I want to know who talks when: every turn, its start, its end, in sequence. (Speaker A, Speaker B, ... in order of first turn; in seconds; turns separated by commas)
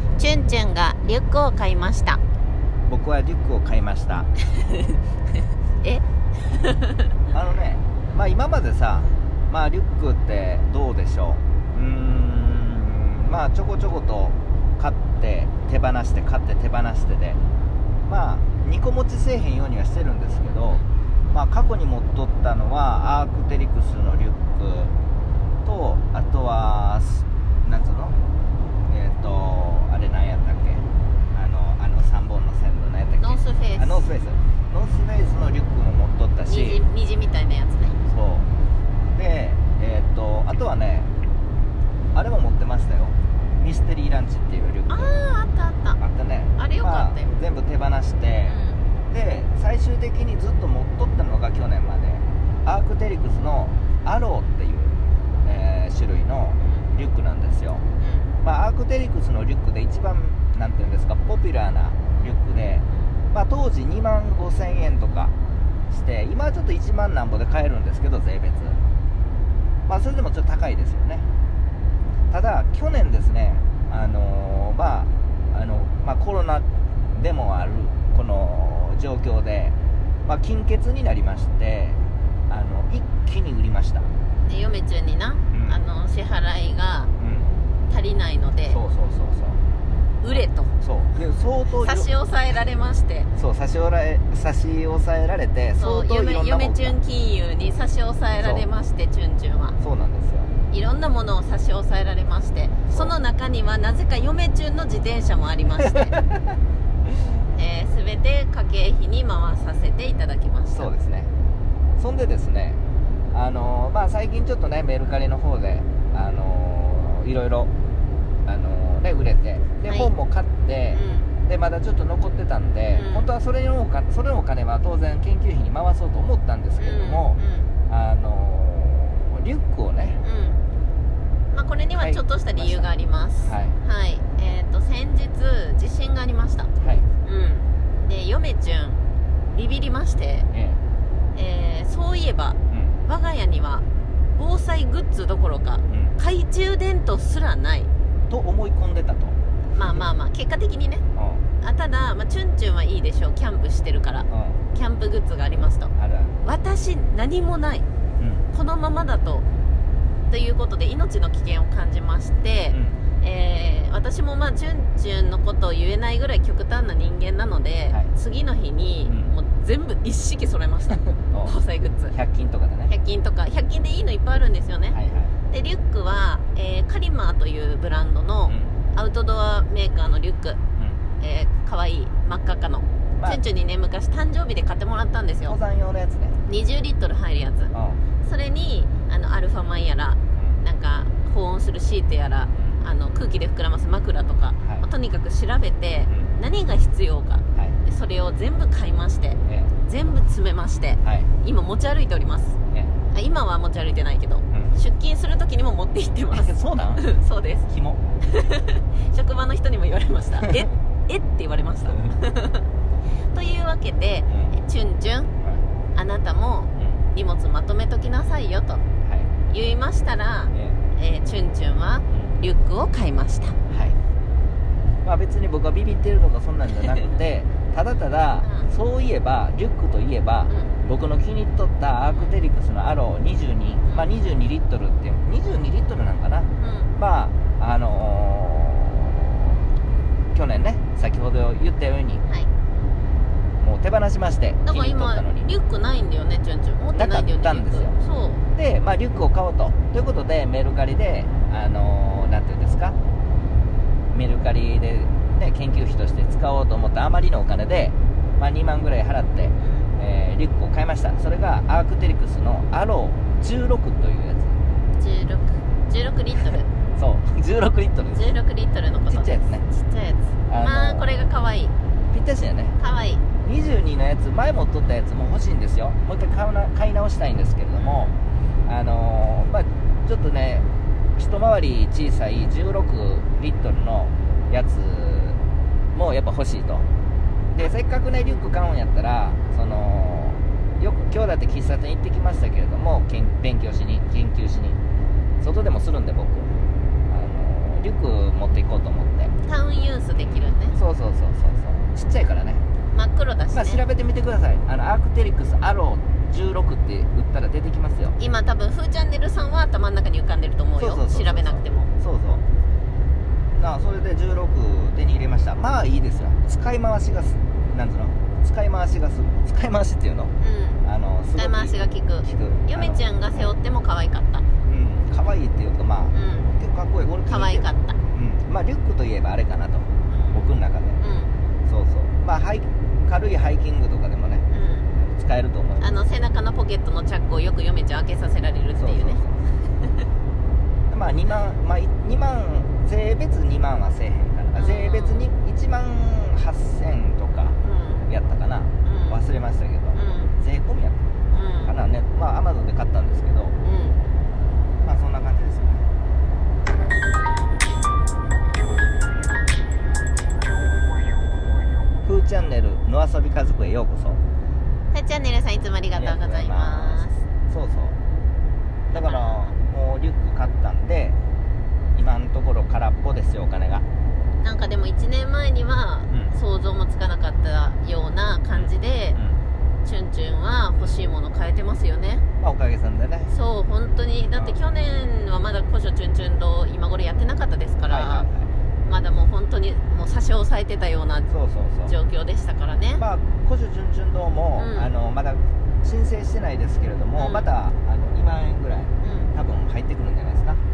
Speaker A: 0.2-2.2, Speaker B: 2.9-4.3, Speaker A: 4.5-5.0, Speaker A: 5.8-7.1, Speaker B: 7.3-17.4, Speaker B: 18.1-24.9, Speaker B: 25.6-28.2, Speaker B: 28.9-36.8, Speaker A: 33.2-34.1, Speaker A: 36.5-38.0, Speaker B: 38.1-38.5, Speaker B: 39.1-41.1, Speaker B: 42.1-45.1, Speaker A: 44.9-46.0, Speaker B: 46.0-48.6, Speaker A: 46.6-47.3, Speaker A: 48.5-48.8, Speaker B: 49.1-57.8, Speaker A: 56.6-56.9, Speaker A: 58.0-58.4, Speaker B: 58.4-65.3, Speaker B: 65.9-68.8, Speaker B: 69.9-71.3, Speaker B: 72.3-79.8, Speaker B: 80.3-84.1, Speaker A: 84.5-87.1, Speaker B: 85.5-85.8, Speaker B: 87.2-87.5, Speaker A: 87.9-88.8, Speaker B: 88.7-89.6, Speaker A: 90.2-90.7, Speaker B: 90.3-92.1, Speaker A: 91.7-93.3, Speaker B: 93.3-97.0, Speaker A: 95.8-99.8, Speaker B: 98.4-98.7, Speaker B: 99.8-100.5, Speaker A: 100.7-106.2, Speaker B: 102.9-103.2, Speaker B: 106.0-106.4, Speaker A: 107.5-110.9, Speaker B: 110.7-111.3, Speaker B: 112.0-112.8, Speaker B: 113.3-117.7, Speaker B: 118.5-130.2, Speaker A: 120.9-121.3, Speaker A: 122.9-123.3, Speaker A: 126.8-127.7, Speaker A: 130.2-130.6, Speaker A: 131.5-136.7, Speaker B: 131.9-132.9, Speaker B: 133.4-133.8, Speaker B: 136.8-137.1, Speaker A: 137.2-139.0, Speaker A: 139.5-140.5, Speaker B: 140.5-140.8, Speaker A: 141.3-143.8, Speaker B: 142.7-143.0, Speaker A: 144.4-147.9, Speaker B: 145.9-146.2, Speaker B: 148.3-150.1, Speaker A: 149.7-151.1, Speaker B: 151.2-151.4, Speaker A: 151.6-155.9, Speaker B: 154.3-154.6, Speaker B: 156.0-156.4, Speaker A: 156.4-157.9, Speaker B: 158.2-158.5, Speaker A: 158.5-159.5, Speaker A: 160.3-172.1, Speaker B: 162.7-163.0, Speaker B: 169.1-169.3, Speaker B: 172.1-172.9, Speaker A: 172.9-175.0, Speaker B: 174.9-175.3, Speaker A: 175.5-180.6, Speaker B: 178.5-178.8, Speaker A: 181.2-185.6, Speaker B: 185.5-186.4, Speaker A: 186.4-202.6, Speaker B: 187.7-188.0, Speaker B: 190.3-190.6, Speaker B: 192.5-192.8, Speaker B: 194.6-194.9, Speaker B: 196.1-196.3, Speaker B: 199.4-199.7, Speaker B: 201.0-201.3, Speaker A: 203.1-207.7, Speaker B: 206.3-207.1, Speaker B: 207.7-208.0, Speaker A: 208.2-212.7, Speaker A: 213.3-215.3, Speaker B: 214.3-214.6, Speaker A: 215.9-218.8, Speaker B: 219.1-219.3, Speaker A: 219.5-223.6, Speaker B: 220.5-220.8, Speaker B: 223.7-224.0, Speaker B: 225.0-239.3, Speaker A: 228.4-228.7, Speaker A: 230.5-230.8, Speaker A: 232.1-232.3, Speaker A: 233.9-234.1, Speaker A: 236.6-236.9, Speaker B: 240.3-242.2, Speaker B: 243.6-245.5, Speaker A: 244.7-248.4, Speaker B: 246.9-247.9, Speaker B: 248.6-253.0, Speaker B: 254.1-264.6, Speaker A: 259.6-259.9, Speaker A: 265.0-266.7, Speaker B: 267.0-268.4, Speaker A: 268.1-271.7, Speaker B: 269.1-269.7, Speaker B: 270.5-271.3, Speaker B: 272.1-272.8, Speaker A: 272.8-273.2, Speaker B: 273.4-278.1, Speaker A: 277.8-278.2, Speaker B: 278.6-285.4, Speaker B: 285.9-286.9, Speaker B: 287.5-294.8, Speaker A: 287.6-288.4, Speaker B: 295.4-296.5, Speaker B: 297.1-299.3, Speaker A: 299.4-300.8, Speaker B: 300.2-302.6, Speaker A: 302.9-303.8, Speaker B: 303.5-308.2, Speaker A: 308.2-311.9, Speaker B: 310.8-312.4, Speaker B: 313.6-320.3, Speaker A: 320.4-320.8, Speaker B: 320.8-323.6, Speaker A: 321.4-324.5, Speaker B: 324.6-331.0, Speaker A: 326.1-326.5, Speaker A: 327.3-328.0, Speaker A: 330.1-330.4, Speaker A: 331.0-331.4, Speaker B: 331.7-336.1, Speaker A: 334.5-334.9, Speaker A: 335.8-339.2, Speaker B: 338.8-339.4, Speaker B: 340.9-351.1, Speaker A: 344.6-345.3, Speaker A: 347.6-348.1, Speaker A: 348.9-349.2, Speaker A: 349.9-350.4, Speaker A: 351.3-351.7, Speaker B: 351.6-353.6, Speaker A: 353.6-354.0, Speaker B: 354.8-355.9, Speaker B: 362.0-364.2, Speaker A: 364.9-367.2, Speaker B: 365.9-368.0, Speaker A: 368.9-369.6, Speaker B: 368.9-371.2, Speaker B: 371.9-373.9, Speaker A: 374.4-379.2, Speaker B: 376.1-376.4, Speaker B: 378.5-379.4, Speaker A: 379.8-382.2, Speaker B: 380.8-381.0, Speaker B: 382.4-383.3, Speaker A: 383.3-388.3, Speaker B: 387.9-388.5, Speaker A: 388.8-391.3, Speaker B: 391.3-391.9, Speaker A: 391.9-393.0, Speaker B: 393.0-400.6, Speaker A: 394.6-394.9, Speaker A: 397.2-397.5, Speaker A: 399.0-399.3